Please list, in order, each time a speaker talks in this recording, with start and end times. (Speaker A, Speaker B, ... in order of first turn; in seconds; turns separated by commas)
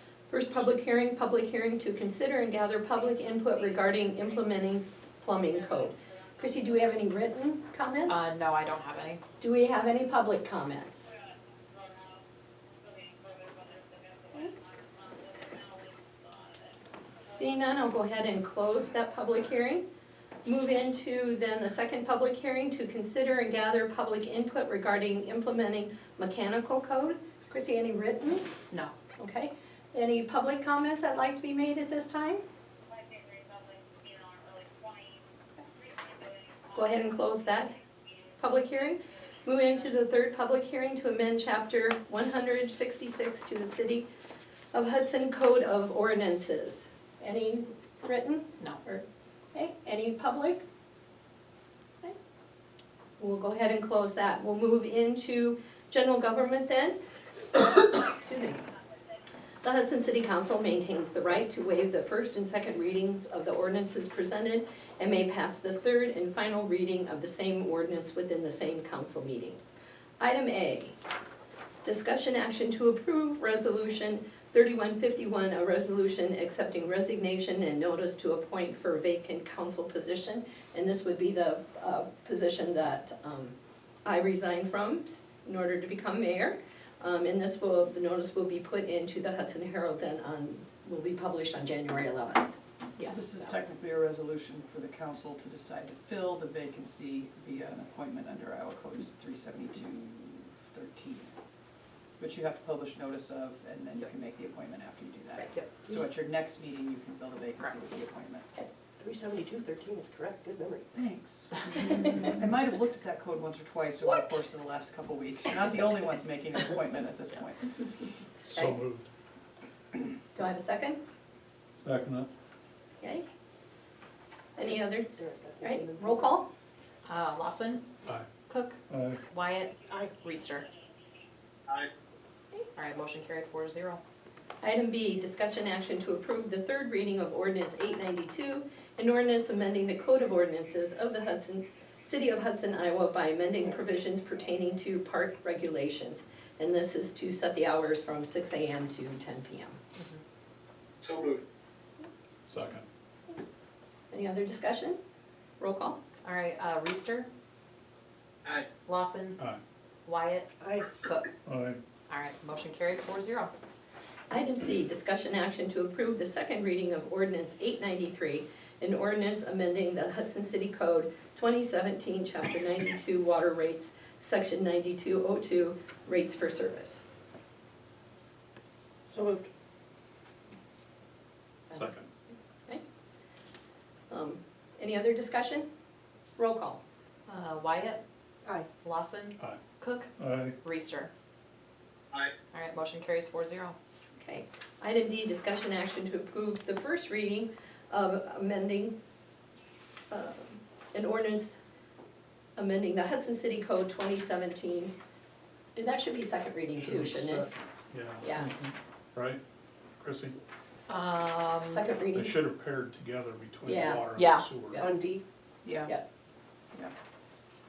Speaker A: 0.3-8.2, Speaker B: 8.1-9.2, Speaker A: 9.4-11.1, Speaker C: 13.1-14.0, Speaker C: 15.3-15.8, Speaker A: 17.3-19.8, Speaker A: 20.4-28.5, Speaker A: 29.2-32.4, Speaker C: 33.0-35.0, Speaker A: 36.7-37.7, Speaker A: 38.4-44.1, Speaker A: 44.7-50.6, Speaker A: 53.2-57.0, Speaker A: 57.5-58.6, Speaker A: 59.6-69.6, Speaker A: 70.2-71.0, Speaker A: 71.8-93.5, Speaker D: 93.0-101.3, Speaker D: 102.2-108.5, Speaker B: 105.4-105.9, Speaker E: 109.0-110.9, Speaker D: 110.9-118.2, Speaker F: 118.5-119.1, Speaker A: 120.3-121.0, Speaker F: 121.8-122.3, Speaker A: 124.6-126.5, Speaker E: 124.6-126.3, Speaker B: 127.0-127.9, Speaker F: 128.0-128.3, Speaker B: 128.4-128.8, Speaker F: 128.9-129.2, Speaker B: 129.3-130.7, Speaker E: 129.9-130.1, Speaker B: 132.7-134.0, Speaker A: 134.6-149.8, Speaker C: 151.0-151.4, Speaker F: 152.5-152.8, Speaker A: 154.1-155.0, Speaker A: 155.6-156.0, Speaker B: 156.2-157.3, Speaker B: 158.8-159.4, Speaker B: 160.1-161.3, Speaker E: 160.6-160.9, Speaker F: 161.4-161.8, Speaker B: 162.1-163.5, Speaker A: 164.3-177.0, Speaker E: 179.1-179.5, Speaker F: 181.7-182.1, Speaker A: 184.1-185.7, Speaker A: 186.4-186.8, Speaker B: 187.3-188.0, Speaker B: 188.8-190.1, Speaker F: 190.2-190.6, Speaker B: 190.6-191.1, Speaker B: 192.5-193.8, Speaker A: 194.2-198.9, Speaker A: 200.1-201.6, Speaker A: 202.6-204.9, Speaker A: 205.8-207.5, Speaker F: 206.8-209.4, Speaker A: 208.2-208.5, Speaker F: 210.0-210.3, Speaker B: 210.9-211.8, Speaker A: 211.6-212.3, Speaker F: 212.1-214.9, Speaker A: 213.6-214.1, Speaker B: 214.1-214.4, Speaker E: 214.8-215.2, Speaker D: 215.6-215.9